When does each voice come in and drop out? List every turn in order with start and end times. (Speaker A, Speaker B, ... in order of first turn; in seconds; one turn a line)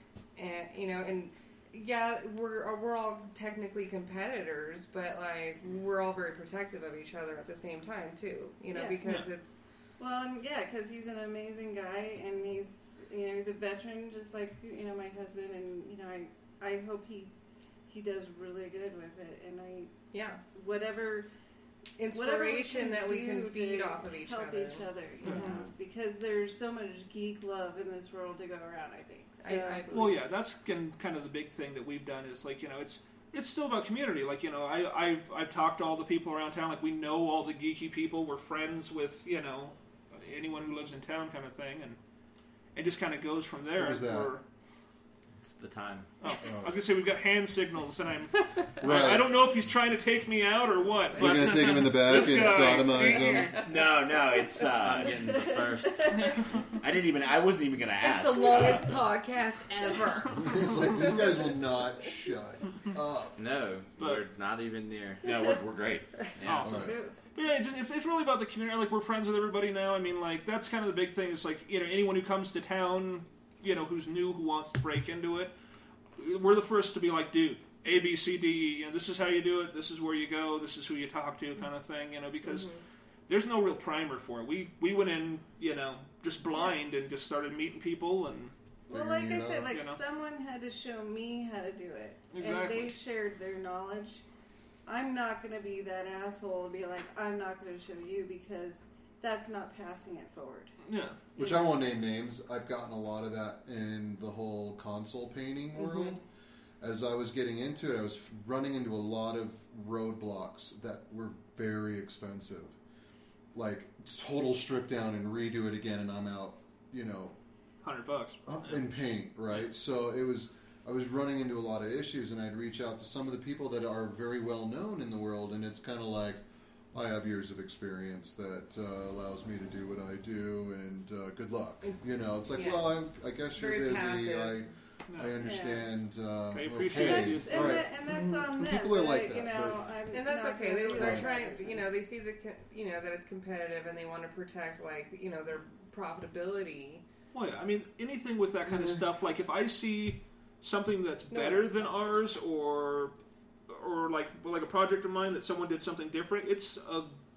Speaker A: 0.4-9.6
Speaker B: 8.7-9.0
Speaker B: 10.0-17.3
Speaker B: 17.9-19.9
Speaker A: 20.1-20.4
Speaker B: 20.5-21.3
Speaker A: 22.0-25.4
Speaker B: 22.1-29.9
Speaker A: 29.4-30.2
Speaker C: 29.9-42.0
Speaker C: 42.8-44.4
Speaker D: 43.8-44.3
Speaker E: 45.4-46.1
Speaker C: 46.2-53.6
Speaker D: 46.4-46.8
Speaker D: 48.8-49.3
Speaker D: 51.2-53.6
Speaker A: 51.4-51.7
Speaker A: 52.5-53.7
Speaker F: 53.5-55.3
Speaker E: 54.7-56.4
Speaker B: 55.3-56.4
Speaker F: 56.8-59.0
Speaker A: 58.0-61.5
Speaker D: 60.4-63.4
Speaker E: 63.4-65.2
Speaker C: 64.0-64.2
Speaker F: 65.2-66.1
Speaker E: 66.4-66.9
Speaker C: 66.4-75.5
Speaker D: 66.6-67.0
Speaker B: 66.7-67.2
Speaker C: 76.2-82.7
Speaker A: 82.4-82.8
Speaker C: 83.3-88.5
Speaker B: 88.9-94.2
Speaker D: 88.9-89.7
Speaker C: 89.7-90.0
Speaker C: 92.3-92.9
Speaker B: 94.9-100.8
Speaker C: 100.9-101.2
Speaker D: 101.4-106.2
Speaker D: 106.8-112.8
Speaker D: 113.5-117.4
Speaker C: 117.8-118.5
Speaker D: 118.5-139.8
Speaker A: 131.8-133.0
Speaker A: 133.5-134.7
Speaker C: 135.1-135.3
Speaker B: 135.4-135.9
Speaker C: 136.5-137.8
Speaker B: 136.9-141.9
Speaker A: 140.1-147.0
Speaker D: 140.9-141.3
Speaker C: 147.3-153.2
Speaker A: 151.3-152.3
Speaker C: 153.7-157.2